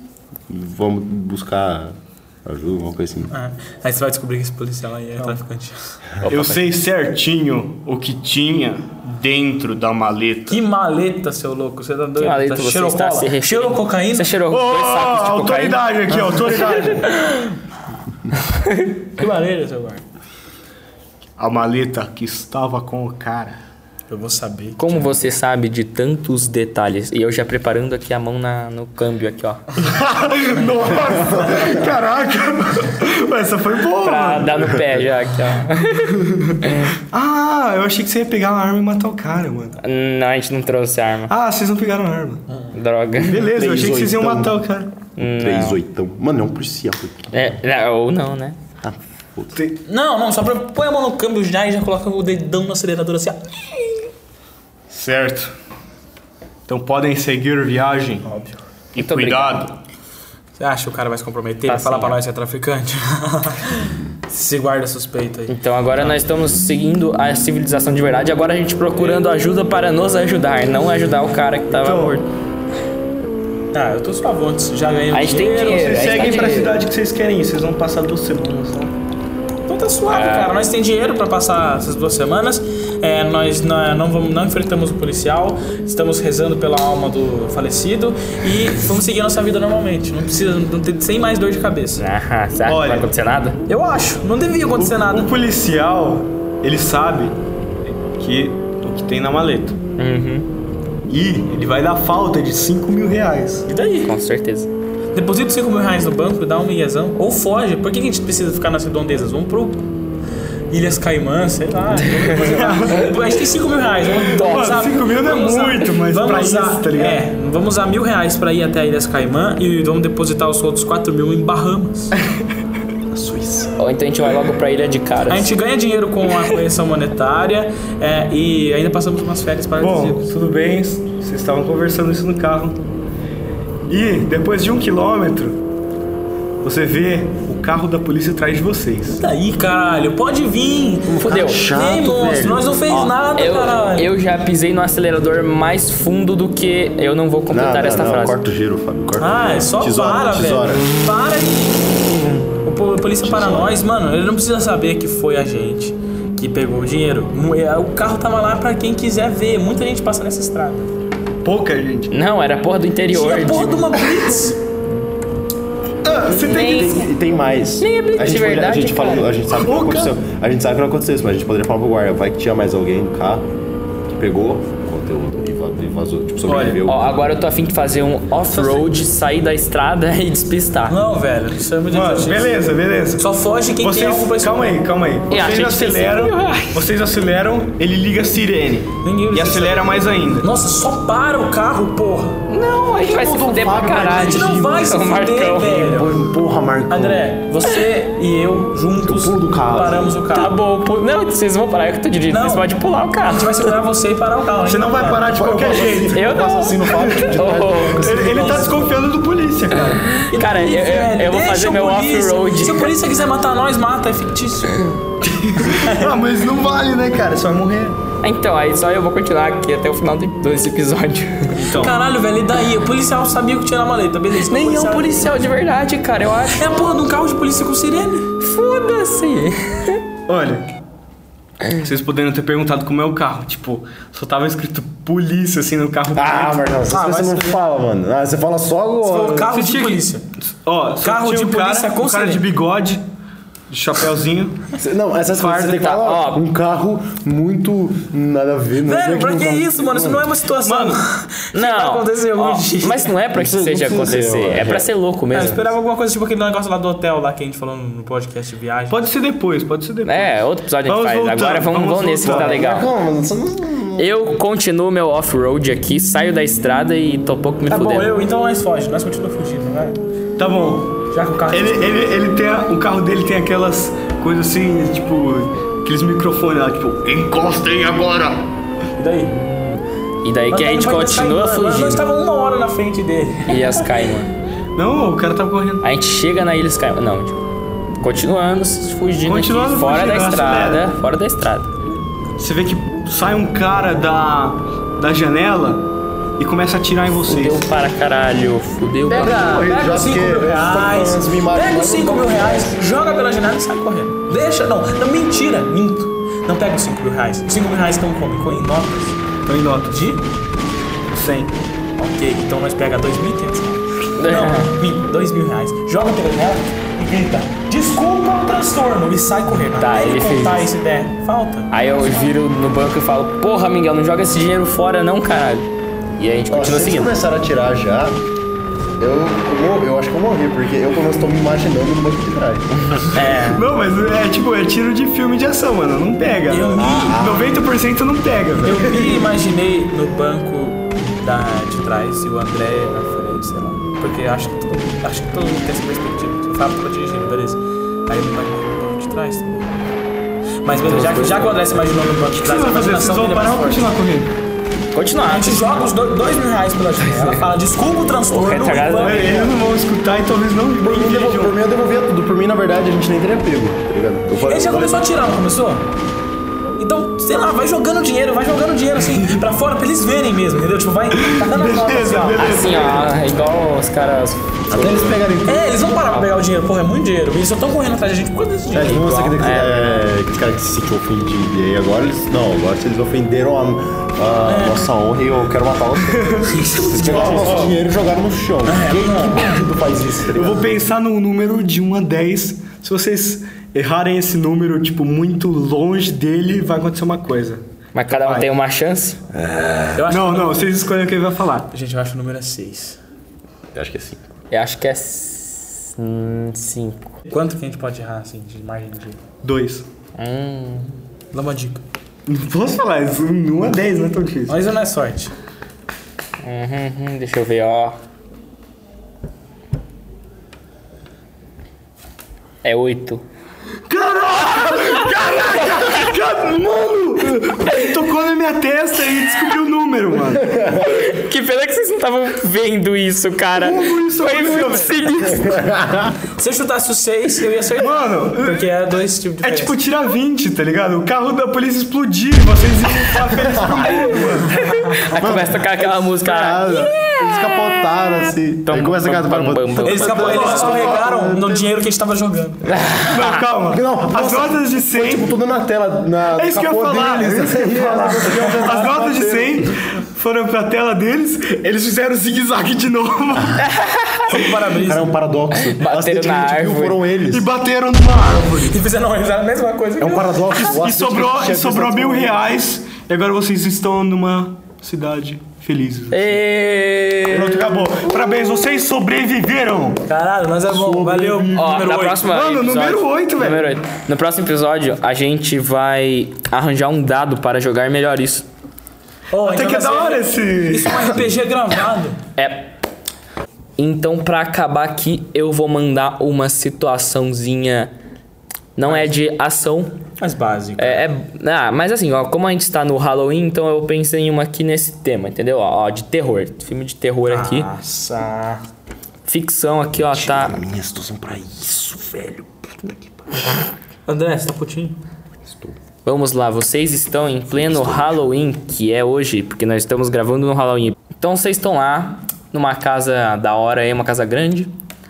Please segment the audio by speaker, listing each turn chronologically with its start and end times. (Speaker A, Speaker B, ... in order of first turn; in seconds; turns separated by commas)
Speaker A: 0.5-3.3, Speaker B: 3.3-6.0, Speaker C: 6.2-6.6, Speaker D: 6.2-10.6, Speaker B: 10.5-14.3, Speaker C: 12.2-17.0, Speaker D: 14.5-17.1, Speaker B: 19.2-20.0, Speaker D: 21.4-23.6, Speaker B: 24.1-25.1, Speaker C: 24.8-29.8, Speaker D: 29.8-34.7, Speaker C: 34.0-36.9, Speaker D: 36.1-39.8, Speaker C: 39.8-41.3, Speaker D: 41.3-42.5, Speaker C: 42.7-43.5, Speaker D: 43.1-44.9, Speaker A: 43.5-44.6, Speaker C: 45.2-45.8, Speaker A: 45.2-47.5, Speaker C: 47.3-48.6, Speaker A: 48.8-49.6, Speaker B: 49.9-54.1, Speaker D: 54.9-55.5, Speaker D: 56.7-58.2, Speaker B: 58.2-58.6, Speaker D: 59.0-59.7, Speaker C: 59.0-59.6, Speaker B: 60.6-66.2, Speaker C: 61.7-62.2, Speaker C: 65.5-72.2, Speaker D: 71.7-72.2, Speaker B: 73.7-76.2, Speaker C: 75.1-76.8, Speaker D: 75.8-79.0, Speaker B: 79.7-92.0, Speaker C: 80.1-80.5, Speaker C: 92.0-93.6, Speaker D: 92.7-93.1, Speaker B: 93.7-95.3, Speaker D: 94.8-99.8, Speaker C: 100.0-100.5, Speaker D: 101.1-103.7, Speaker B: 103.7-104.1, Speaker C: 104.0-104.7, Speaker B: 105.1-109.8, Speaker B: 110.7-122.1, Speaker C: 112.0-113.1, Speaker D: 112.2-113.1, Speaker C: 114.3-114.9, Speaker D: 114.4-117.2, Speaker B: 123.2-123.6, Speaker C: 123.8-125.5, Speaker B: 125.3-130.3, Speaker D: 129.8-132.8, Speaker D: 133.9-135.6, Speaker D: 136.6-139.2, Speaker B: 139.2-144.1, Speaker A: 141.1-142.8, Speaker C: 141.2-141.6, Speaker C: 142.9-148.4, Speaker A: 147.5-150.9, Speaker B: 149.2-152.0, Speaker B: 152.6-160.9, Speaker A: 153.2-153.8, Speaker D: 161.4-162.1, Speaker C: 162.1-164.0, Speaker B: 163.1-164.6, Speaker D: 166.0-167.1, Speaker C: 166.3-167.1, Speaker A: 166.3-173.5, Speaker C: 167.8-169.3, Speaker D: 169.5-170.1, Speaker A: 174.1-177.2, Speaker D: 176.5-176.8, Speaker C: 176.9-181.0, Speaker B: 180.9-182.6, Speaker D: 181.9-183.3, Speaker B: 183.2-184.8, Speaker D: 183.8-190.5, Speaker C: 185.3-186.8, Speaker B: 189.0-192.4, Speaker C: 192.5-195.8, Speaker A: 193.0-195.0, Speaker B: 194.1-196.1, Speaker A: 195.5-197.3, Speaker B: 196.9-200.6, Speaker A: 199.0-200.2, Speaker C: 200.3-203.7, Speaker B: 202.3-202.7, Speaker B: 203.2-205.6, Speaker D: 204.7-206.3, Speaker A: 205.2-208.7, Speaker C: 205.9-208.2, Speaker D: 207.0-207.3, Speaker D: 207.9-210.1, Speaker B: 208.2-209.0, Speaker C: 210.1-212.9, Speaker B: 210.2-214.8, Speaker D: 215.2-218.0, Speaker B: 215.6-216.1, Speaker C: 218.2-221.7, Speaker D: 221.5-222.0, Speaker B: 221.7-225.3, Speaker C: 224.5-226.6, Speaker B: 226.6-228.3, Speaker C: 228.4-230.0, Speaker D: 230.3-230.7, Speaker D: 231.8-236.8, Speaker A: 236.1-239.5, Speaker B: 236.9-237.6, Speaker B: 239.0-240.2, Speaker D: 239.5-243.0, Speaker B: 241.0-242.5, Speaker D: 243.7-244.7, Speaker A: 244.8-250.3, Speaker D: 245.3-245.9, Speaker C: 245.8-246.4, Speaker B: 248.8-253.1, Speaker D: 250.6-251.0, Speaker C: 251.5-255.6, Speaker A: 253.3-255.6, Speaker B: 255.3-259.0, Speaker D: 258.9-262.6, Speaker C: 260.0-262.9, Speaker A: 262.2-264.1, Speaker C: 264.0-268.1, Speaker B: 267.7-270.0, Speaker D: 270.4-278.5, Speaker B: 271.1-272.0, Speaker B: 279.0-279.4, Speaker C: 279.3-282.0, Speaker B: 280.5-283.8, Speaker C: 283.5-284.3, Speaker D: 284.8-285.8, Speaker C: 285.8-287.4, Speaker C: 287.9-291.7, Speaker D: 289.2-290.9, Speaker D: 292.4-297.6, Speaker C: 297.2-299.4, Speaker A: 299.1-302.8, Speaker B: 299.1-309.2, Speaker D: 309.5-310.0, Speaker B: 309.9-310.2, Speaker D: 311.1-311.5, Speaker B: 312.0-322.3, Speaker C: 314.2-314.7, Speaker C: 319.8-320.7, Speaker C: 321.7-325.7, Speaker C: 326.2-327.1, Speaker A: 326.5-328.2, Speaker A: 329.0-332.7, Speaker C: 332.8-333.6, Speaker D: 333.4-338.8, Speaker B: 336.5-337.4, Speaker A: 336.8-337.5, Speaker B: 338.6-349.9, Speaker B: 350.6-353.9, Speaker C: 350.8-351.6, Speaker D: 352.3-354.3, Speaker C: 354.9-355.8, Speaker B: 355.2-359.6, Speaker C: 357.1-357.4, Speaker C: 358.3-359.4, Speaker D: 359.0-361.5, Speaker A: 360.8-365.0, Speaker B: 364.4-365.9, Speaker B: 366.8-372.7, Speaker D: 371.2-373.1, Speaker C: 372.4-375.2, Speaker A: 374.7-375.9, Speaker B: 375.4-379.4, Speaker A: 378.7-390.7, Speaker C: 379.4-380.1, Speaker B: 384.5-384.9, Speaker D: 386.1-387.7, Speaker B: 386.5-387.8, Speaker B: 388.7-389.5, Speaker D: 390.3-398.5, Speaker C: 397.9-399.2, Speaker A: 399.3-400.0, Speaker B: 399.9-400.6, Speaker D: 400.1-401.7, Speaker B: 401.7-403.0, Speaker A: 403.7-404.3, Speaker C: 404.5-407.1, Speaker B: 407.3-409.2, Speaker D: 409.4-409.9, Speaker C: 410.2-411.0, Speaker B: 411.3-411.8, Speaker D: 412.2-414.6, Speaker B: 414.5-415.3, Speaker C: 416.4-418.0, Speaker C: 422.6-423.2, Speaker D: 423.9-430.5, Speaker C: 430.8-435.8, Speaker D: 433.6-435.1, Speaker A: 435.4-436.1, Speaker B: 436.4-439.8, Speaker D: 437.8-438.7, Speaker D: 439.4-444.7, Speaker A: 443.5-444.0, Speaker C: 444.6-450.8, Speaker A: 445.1-451.7, Speaker B: 449.8-452.7, Speaker D: 450.2-451.1, Speaker C: 452.7-453.4, Speaker D: 453.0-455.3, Speaker A: 453.7-459.8, Speaker D: 456.3-463.7, Speaker C: 463.6-464.4, Speaker B: 464.3-465.1, Speaker A: 464.8-467.5, Speaker C: 465.6-467.0, Speaker D: 467.3-468.8, Speaker B: 468.7-470.6, Speaker A: 470.0-472.5, Speaker D: 470.6-476.4, Speaker C: 476.1-477.8, Speaker D: 477.3-480.0, Speaker B: 480.1-482.2, Speaker A: 480.7-481.4, Speaker D: 481.3-483.8, Speaker C: 481.5-488.5, Speaker B: 489.3-492.2, Speaker D: 489.3-491.1, Speaker C: 492.4-492.8, Speaker C: 493.8-497.9, Speaker C: 498.8-500.0, Speaker B: 498.8-499.1, Speaker B: 500.2-501.1, Speaker C: 500.8-507.7, Speaker B: 507.2-508.6, Speaker C: 509.2-510.6, Speaker A: 510.0-513.1, Speaker B: 514.1-515.0, Speaker A: 515.4-515.8, Speaker C: 516.0-524.7, Speaker A: 517.5-518.2